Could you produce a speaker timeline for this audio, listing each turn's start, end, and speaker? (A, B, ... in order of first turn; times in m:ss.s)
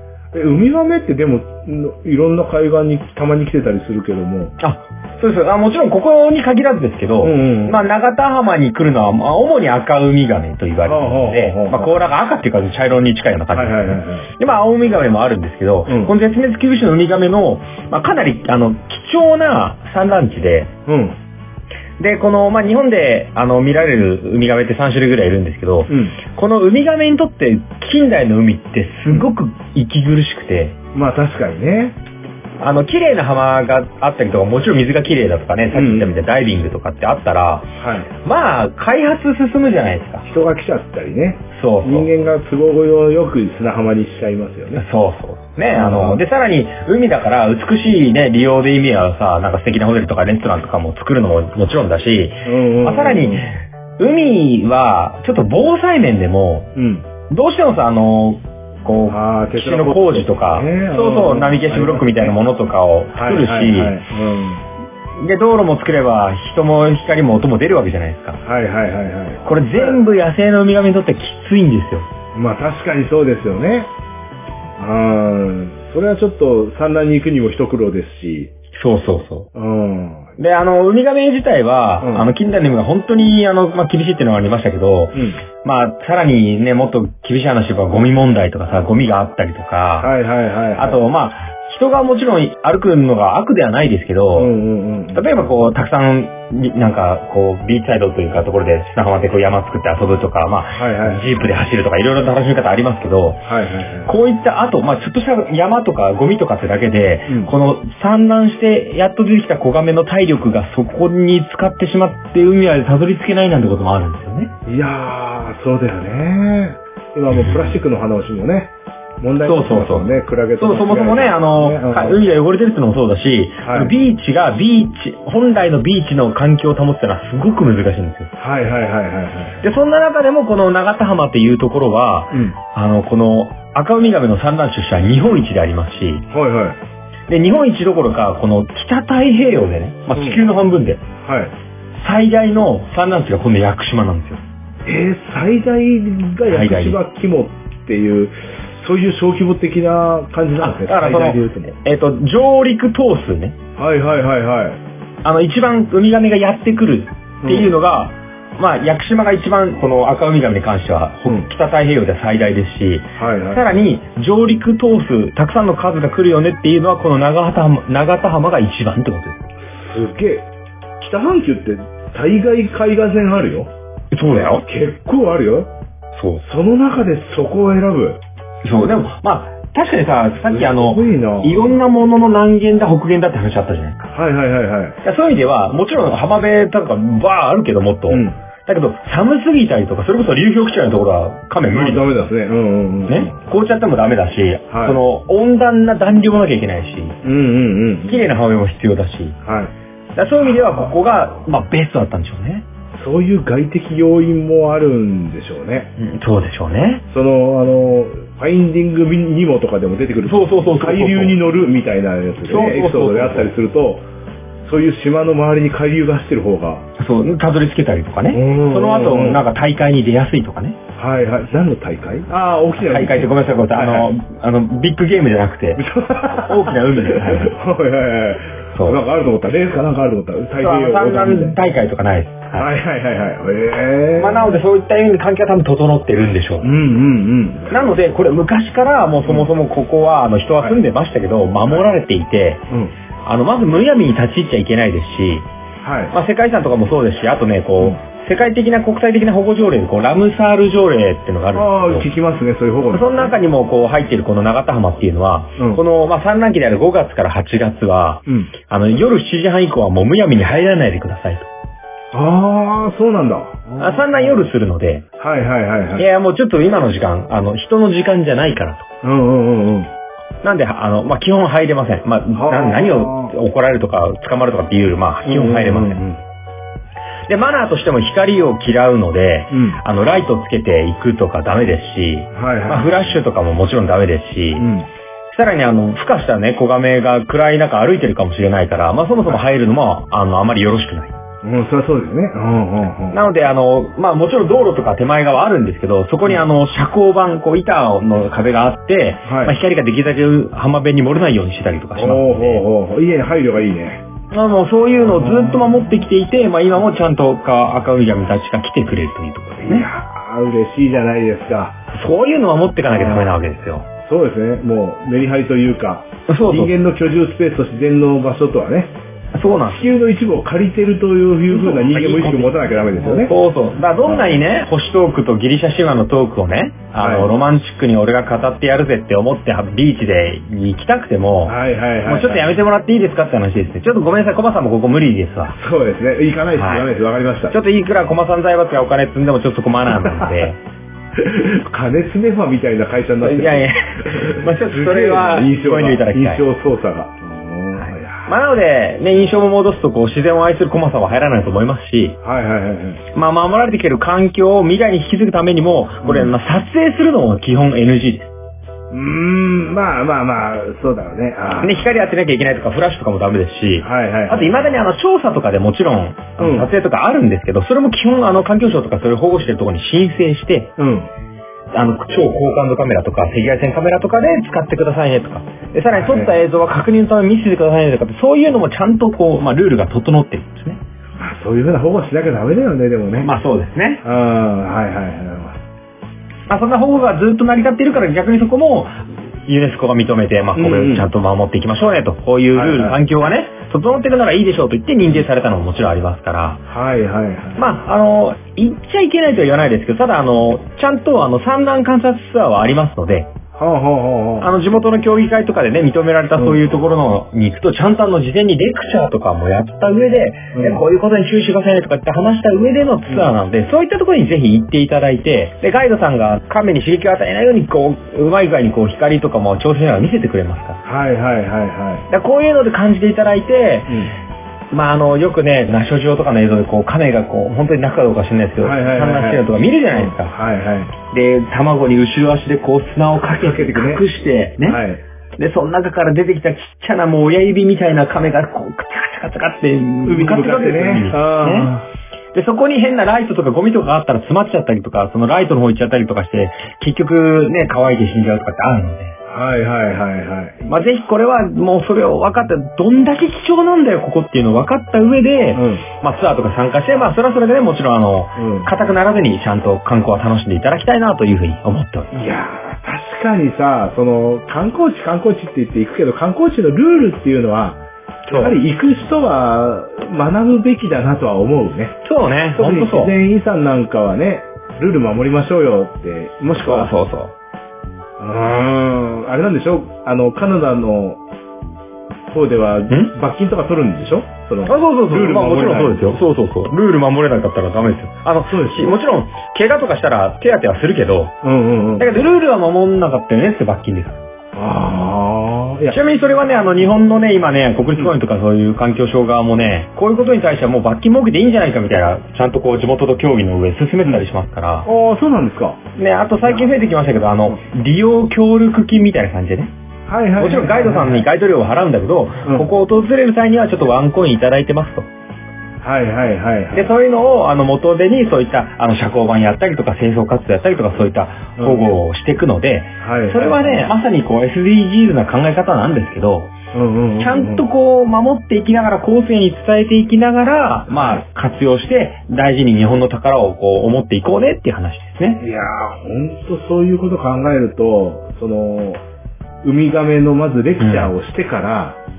0:00.3-0:04.6 A
0:04.6-0:20.7 B
0:07.2-0:07.8 A
0:10.8-0:12.0 A
0:13.5-0:14.3 A
0:15.9-0:16.1 A
0:20.9-0:21.2 A
0:22.0-0:30.8 B
0:25.9-0:26.2 A
0:30.9-0:32.0 A
0:32.6-0:37.7 B
0:35.7-0:36.1 A
0:37.8-0:38.1 A
0:38.2-0:40.2 B
0:40.2-0:44.8 A
0:41.5-0:42.1 B
0:44.8-0:56.7 B
0:45.8-0:46.2 A
0:52.4-0:53.5 A
0:56.8-0:57.1 A
0:57.3-1:04.0 B
0:59.1-1:02.4 A
1:03.1-1:04.7 A
1:05.2-1:08.4 B
1:08.4-1:10.0 A
1:09.4-1:12.1 B
1:12.3-1:13.9 A
1:14.8-1:18.5 A
1:18.7-1:19.5 B
1:19.6-1:20.3 A
1:20.4-1:30.1 B
1:22.0-1:22.3 A
1:25.1-1:25.4 A
1:30.0-1:31.0 A
1:30.8-1:34.5 B
1:34.4-1:35.3 A
1:35.1-1:43.5 B
1:40.8-1:41.4 A
1:43.5-1:44.1 A
1:44.0-1:54.5 B
1:47.3-1:47.5 A
1:54.7-2:02.2 A
1:57.3-1:57.8 B
1:59.4-2:08.3 B
2:03.6-2:03.9 A
2:08.4-2:09.6 A
2:09.6-2:16.2 B
2:12.3-2:12.6 A
2:16.3-2:16.8 A
2:17.3-2:21.0 B
2:20.1-2:20.5 A
2:21.2-2:21.5 A
2:22.0-2:24.4 B
2:24.8-2:31.8 A
2:26.5-2:27.0 B
2:30.6-2:33.6 B
2:33.8-2:34.8 A
2:35.2-2:49.5 B
2:37.4-2:37.7 A
2:43.2-2:43.7 A
2:49.6-2:50.5 A
2:51.0-2:53.7 A
2:54.1-2:54.7 B
2:54.6-2:55.7 A
2:56.1-2:56.4 B
2:56.4-2:58.2 A
2:58.6-3:04.1 B
3:00.5-3:01.8 A
3:04.1-3:05.0 A
3:05.0-3:12.1 B
3:08.1-3:08.4 A
3:11.7-3:13.4 A
3:13.1-3:17.2 B
3:14.7-3:15.0 A
3:17.2-3:18.3 A
3:18.1-3:19.4 B
3:19.4-3:19.7 A
3:20.2-3:22.7 B
3:20.4-3:20.9 A
3:22.9-3:25.9 A
3:26.0-3:27.0 B
3:27.1-3:34.1 A
3:30.3-3:31.4 B
3:32.4-3:33.5 B
3:34.6-3:36.9 A
3:37.0-3:40.8 B
3:38.3-3:39.4 A
3:41.0-3:44.1 A
3:42.8-3:47.5 B
3:45.8-3:51.6 A
3:48.7-3:49.0 B
3:50.6-3:52.7 B
3:52.6-3:54.6 A
3:54.2-3:56.7 B
3:56.6-3:57.9 A
3:57.7-4:02.6 B
3:59.2-3:59.5 A
4:02.7-4:02.9 A
4:03.2-4:05.5 B
4:05.8-4:06.1 A
4:06.1-4:12.1 B
4:11.5-4:13.4 A
4:12.9-4:21.5 B
4:15.6-4:15.8 A
4:18.3-4:18.5 A
4:22.1-4:24.4 A
4:23.8-4:25.1 B
4:25.2-4:26.1 A
4:26.0-4:28.9 B
4:29.0-4:29.9 A
4:30.4-4:36.0 B
4:32.3-4:33.4 A
4:35.2-4:36.2 A
4:37.3-4:44.7 B
4:39.5-4:39.8 A
4:42.3-4:42.9 A
4:44.6-4:44.9 A
4:45.3-4:51.2 B
4:51.4-4:53.2 A
4:53.1-5:02.6 B
4:59.3-4:59.6 A
5:02.0-5:04.0 A
5:04.3-5:09.9 B
5:05.1-5:05.7 A
5:09.6-5:11.8 A
5:11.9-5:13.9 B
5:12.9-5:13.3 A
5:14.0-5:18.9 A
5:16.3-5:16.7 B
5:19.4-5:19.9 B
5:19.7-5:23.4 A
5:21.5-5:35.6 B
5:24.0-5:24.4 A
5:27.0-5:27.3 A
5:31.5-5:32.5 A
5:35.6-5:37.6 A
5:36.5-5:36.9 B
5:37.5-5:40.6 B
5:39.9-5:40.5 A
5:41.2-5:48.3 A
5:43.2-5:46.4 B
5:47.8-5:52.2 B
5:52.2-5:53.0 A
5:53.1-5:58.3 B
5:56.0-5:56.3 A
5:58.9-6:01.9 A
6:01.6-6:10.7 B
6:03.8-6:04.6 A
6:06.4-6:06.7 A
6:10.8-6:11.1 A
6:11.7-6:20.8 B
6:15.9-6:16.4 A
6:21.2-6:23.3 A
6:23.2-6:24.0 B
6:24.0-6:25.6 A
6:26.5-6:36.6 B
6:30.6-6:31.1 A
6:32.5-6:33.0 A
6:36.7-6:37.6 A
6:37.6-6:43.3 B
6:43.6-6:44.5 A
6:44.4-7:00.8 B
6:50.5-6:50.8 A
6:53.1-6:53.3 A
7:00.8-7:02.1 A
7:02.1-7:04.0 B
7:03.9-7:04.1 A
7:04.7-7:10.3 B
7:08.6-7:10.9 A
7:11.1-7:14.8 B
7:13.3-7:14.0 A
7:14.7-7:15.0 A
7:15.4-7:21.7 B
7:20.0-7:21.9 A
7:22.3-7:29.2 B
7:29.3-7:30.7 A
7:30.7-7:42.2 B
7:35.5-7:35.9 A
7:38.4-7:38.7 A
7:42.1-7:52.0 A
7:48.3-7:48.6 B
7:52.0-7:53.1 B
7:52.6-7:56.9 A
7:56.6-7:57.3 B
7:58.2-8:01.2 A
8:02.3-8:06.0 A
8:04.7-8:11.4 B
8:08.5-8:08.9 A
8:11.4-8:12.1 A
8:12.0-8:14.2 B
8:14.6-8:16.0 A
8:15.9-8:24.9 B
8:24.8-8:25.8 A
8:26.0-8:29.7 B
8:26.4-8:26.7 A
8:30.1-8:31.3 A
8:30.4-8:35.1 B
8:32.4-8:32.7 A
8:35.8-8:36.9 A
8:36.7-8:46.5 B
8:41.6-8:41.8 A
8:43.0-8:43.9 A
8:46.7-8:47.6 A
8:47.2-8:55.4 B
8:50.9-8:51.2 A
8:55.4-8:59.0 A
8:59.6-9:02.0 A
9:00.8-9:01.1 B